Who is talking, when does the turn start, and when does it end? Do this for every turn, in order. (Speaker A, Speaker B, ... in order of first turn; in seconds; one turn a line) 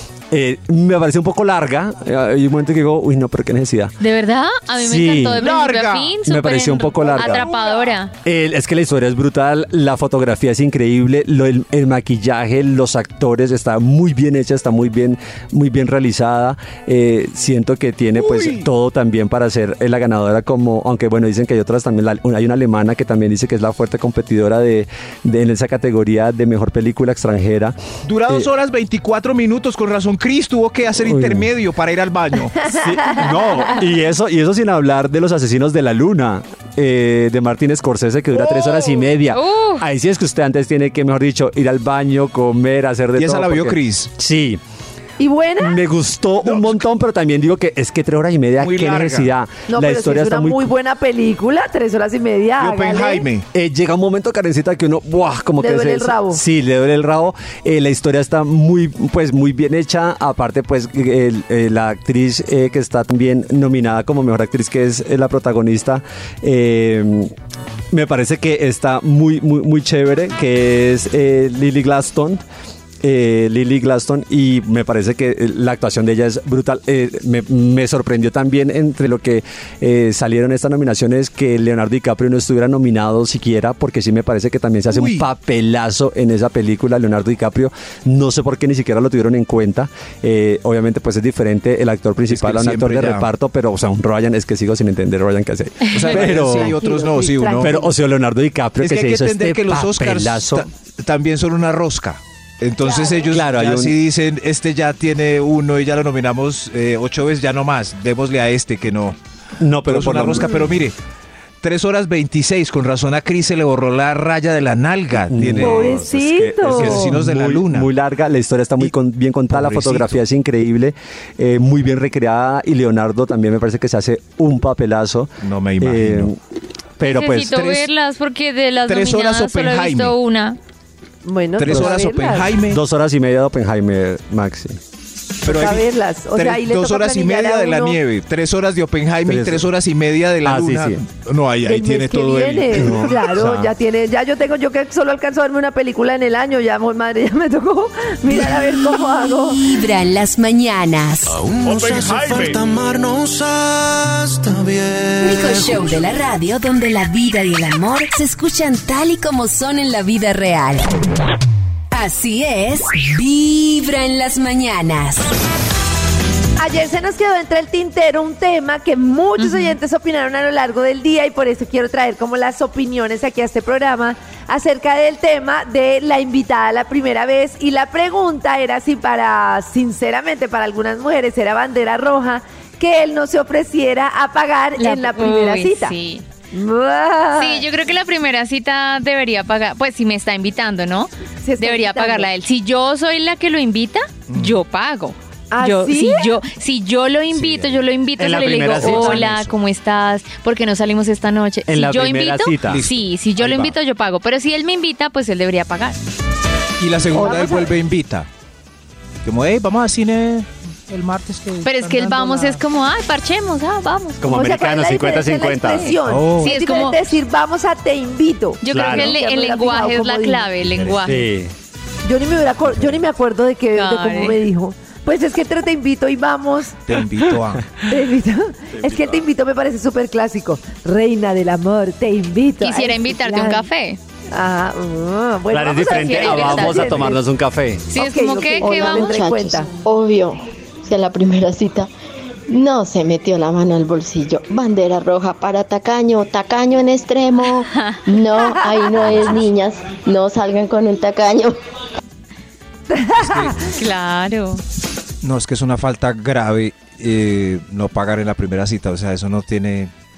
Speaker A: 0.3-4.0
Speaker B: 4.0-8.1
Speaker A: 4.8-5.5
Speaker C: 5.4-6.2
Speaker A: 6.2-7.5
Speaker C: 7.0-8.0
Speaker A: 8.2-27.8
Speaker C: 18.2-18.7
Speaker C: 28.1-33.7
Speaker A: 31.0-31.5
Speaker D: 32.6-33.8
Speaker A: 32.7-44.6
Speaker C: 38.4-39.0
Speaker B: 39.3-39.9
Speaker C: 43.2-44.1
Speaker D: 45.2-45.8
Speaker A: 45.6-50.7
Speaker C: 46.4-46.8
Speaker C: 48.6-49.3
Speaker D: 49.7-53.3
Speaker C: 52.6-53.5
Speaker A: 53.5-67.3
Speaker D: 55.6-56.4
Speaker A: 67.9-72.4
Speaker A: 73.0-96.8
Speaker C: 84.9-85.3
Speaker C: 92.3-93.3
Speaker C: 95.9-97.8
Speaker D: 96.2-97.9
Speaker A: 97.5-100.7
Speaker C: 98.8-109.2
Speaker D: 102.8-103.3
Speaker A: 103.3-104.0
Speaker A: 109.6-110.7
Speaker C: 109.8-111.0
Speaker C: 111.6-116.1
Speaker A: 115.2-126.4
Speaker D: 115.6-117.1
Speaker C: 116.6-117.9
Speaker C: 119.5-120.2
Speaker C: 125.4-126.3
Speaker A: 127.0-127.6
Speaker B: 127.0-130.6
Speaker C: 127.3-127.9
Speaker C: 128.9-130.2
Speaker D: 131.2-132.5
Speaker C: 131.6-132.8
Speaker A: 131.7-132.0
Speaker A: 132.7-134.8
Speaker D: 135.4-138.0
Speaker C: 135.4-143.3
Speaker A: 139.3-139.7
Speaker A: 140.4-141.0
Speaker D: 141.7-149.6
Speaker A: 142.7-143.7
Speaker E: 149.2-151.3
Speaker F: 151.3-155.8
Speaker C: 151.9-152.3
Speaker E: 155.2-161.0
Speaker E: 161.9-165.3
Speaker D: 166.6-185.9
Speaker B: 169.4-169.8
Speaker B: 184.8-186.2
Speaker D: 186.5-187.7
Speaker B: 187.4-206.0
Speaker D: 191.4-192.3
Speaker C: 194.3-194.6
Speaker D: 195.5-196.3
Speaker C: 197.3-197.8
Speaker A: 198.2-199.3
Speaker C: 198.4-199.5
Speaker A: 201.7-202.8
Speaker C: 202.7-203.8
Speaker C: 206.8-208.3
Speaker D: 207.2-207.7
Speaker C: 209.2-212.4
Speaker B: 211.7-214.2
Speaker A: 214.2-215.9
Speaker D: 214.3-220.5
Speaker B: 215.7-217.0
Speaker C: 216.1-216.8
Speaker B: 218.6-221.3
Speaker A: 218.7-219.2
Speaker C: 220.6-221.0
Speaker A: 221.0-221.5
Speaker D: 222.1-226.8
Speaker B: 223.7-224.4
Speaker C: 226.9-227.7
Speaker D: 227.9-233.7
Speaker A: 228.7-229.2
Speaker B: 232.6-234.0
Speaker D: 234.3-237.2
Speaker A: 235.5-237.9
Speaker B: 235.9-237.0
Speaker B: 237.9-239.3
Speaker D: 238.0-239.7
Speaker G: 238.6-241.9
Speaker G: 242.5-251.6
Speaker B: 247.6-248.0
Speaker D: 252.9-253.6
Speaker C: 253.2-253.7
Speaker B: 253.7-254.6
Speaker C: 255.2-259.9